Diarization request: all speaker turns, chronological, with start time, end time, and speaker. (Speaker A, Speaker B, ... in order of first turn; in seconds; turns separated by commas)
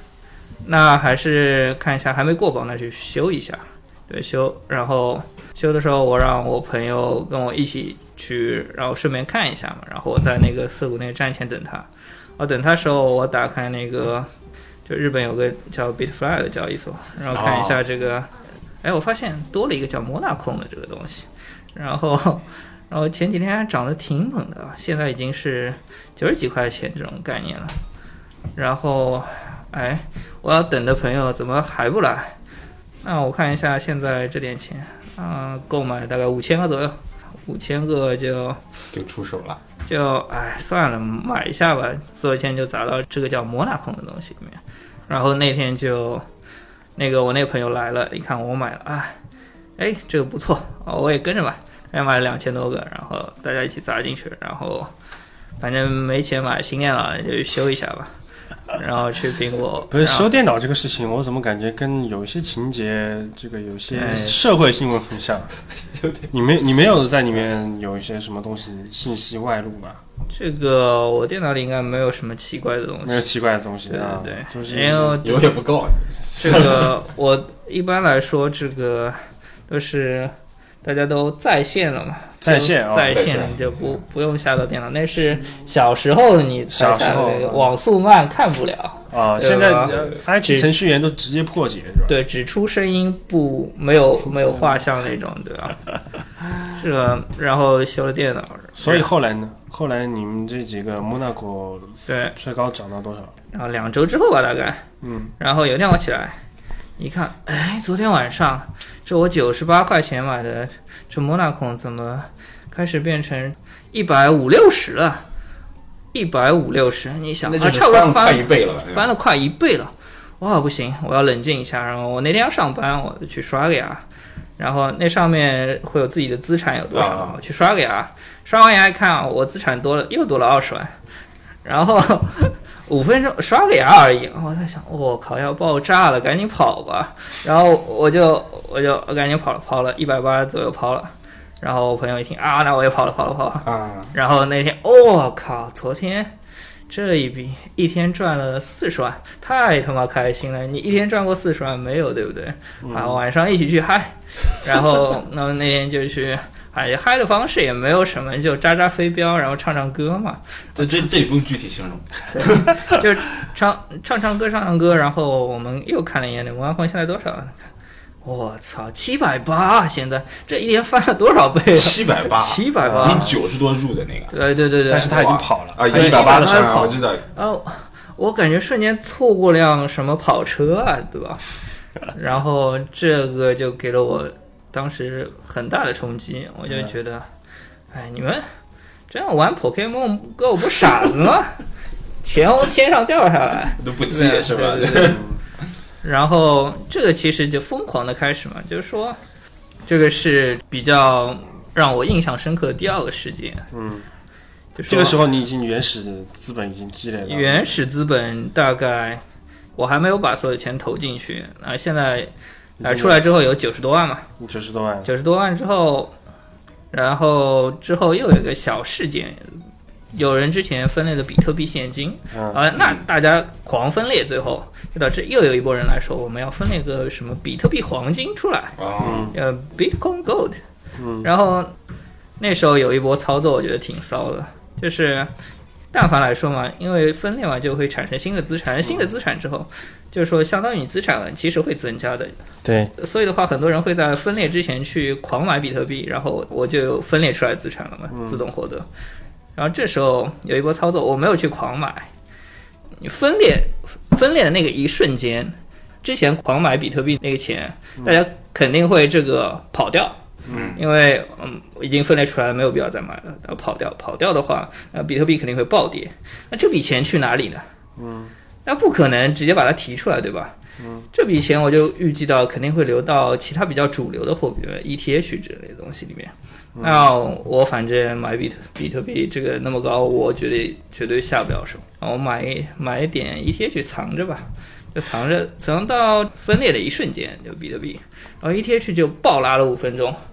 Speaker A: 0.6-11.9, Speaker A: 12.4-14.3, Speaker A: 14.9-18.3, Speaker B: 17.3-17.8, Speaker A: 18.8-27.8, Speaker A: 28.6-32.4, Speaker A: 33.0-38.6, Speaker B: 38.9-39.6, Speaker A: 39.9-46.2, Speaker A: 47.0-49.2, Speaker A: 49.8-54.9, Speaker A: 55.6-58.1, Speaker A: 58.7-60.3, Speaker C: 59.9-65.5, Speaker A: 63.9-64.5, Speaker B: 65.9-66.3, Speaker C: 66.3-70.0, Speaker A: 70.3-73.3, Speaker C: 73.0-75.2, Speaker A: 73.9-75.5, Speaker B: 75.2-76.9, Speaker A: 76.4-79.2, Speaker A: 79.7-90.7, Speaker C: 82.4-83.2, Speaker B: 83.1-83.8, Speaker C: 86.7-87.7, Speaker C: 89.1-92.2, Speaker A: 92.1-95.8, Speaker A: 96.7-99.1, Speaker C: 98.8-103.3, Speaker A: 102.1-102.3, Speaker A: 103.5-104.9, Speaker C: 105.0-105.3, Speaker A: 105.4-106.4, Speaker A: 107.0-115.2, Speaker A: 116.1-124.0, Speaker B: 117.4-119.1, Speaker A: 124.6-130.9, Speaker B: 126.9-127.4, Speaker A: 131.7-146.3, Speaker B: 143.6-144.1, Speaker A: 146.9-160.9, Speaker C: 152.8-153.2, Speaker B: 160.8-163.0, Speaker A: 162.3-167.7, Speaker A: 168.2-173.3, Speaker B: 171.7-174.3, Speaker C: 172.8-173.4, Speaker A: 174.3-181.4, Speaker C: 174.9-177.0, Speaker B: 175.8-177.2, Speaker A: 182.1-187.3, Speaker A: 187.9-188.4, Speaker A: 189.1-191.6, Speaker A: 192.2-195.2, Speaker B: 193.8-195.2, Speaker C: 195.1-195.4, Speaker A: 196.0-199.2, Speaker A: 199.9-203.7, Speaker C: 203.7-204.1, Speaker A: 204.8-205.2, Speaker C: 204.9-207.8, Speaker A: 207.3-209.2, Speaker A: 209.8-212.3, Speaker C: 212.8-213.2, Speaker A: 212.8-214.3, Speaker C: 214.4-215.1, Speaker A: 215.1-216.1, Speaker A: 216.9-219.6, Speaker A: 220.1-228.8, Speaker C: 222.3-222.6, Speaker B: 222.8-223.0, Speaker B: 228.8-229.3, Speaker C: 229.0-229.3, Speaker A: 229.3-230.6, Speaker C: 231.0-231.3, Speaker A: 231.2-231.7, Speaker A: 232.4-235.3, Speaker A: 235.9-242.3, Speaker C: 242.6-242.9, Speaker A: 243.0-248.9, Speaker C: 248.1-248.4, Speaker A: 249.6-252.1, Speaker A: 253.0-260.2, Speaker C: 260.5-260.7, Speaker B: 260.5-260.8, Speaker A: 260.7-267.6, Speaker C: 268.0-268.3, Speaker A: 268.6-270.6, Speaker C: 270.8-271.1, Speaker A: 271.1-290.2, Speaker C: 276.8-277.1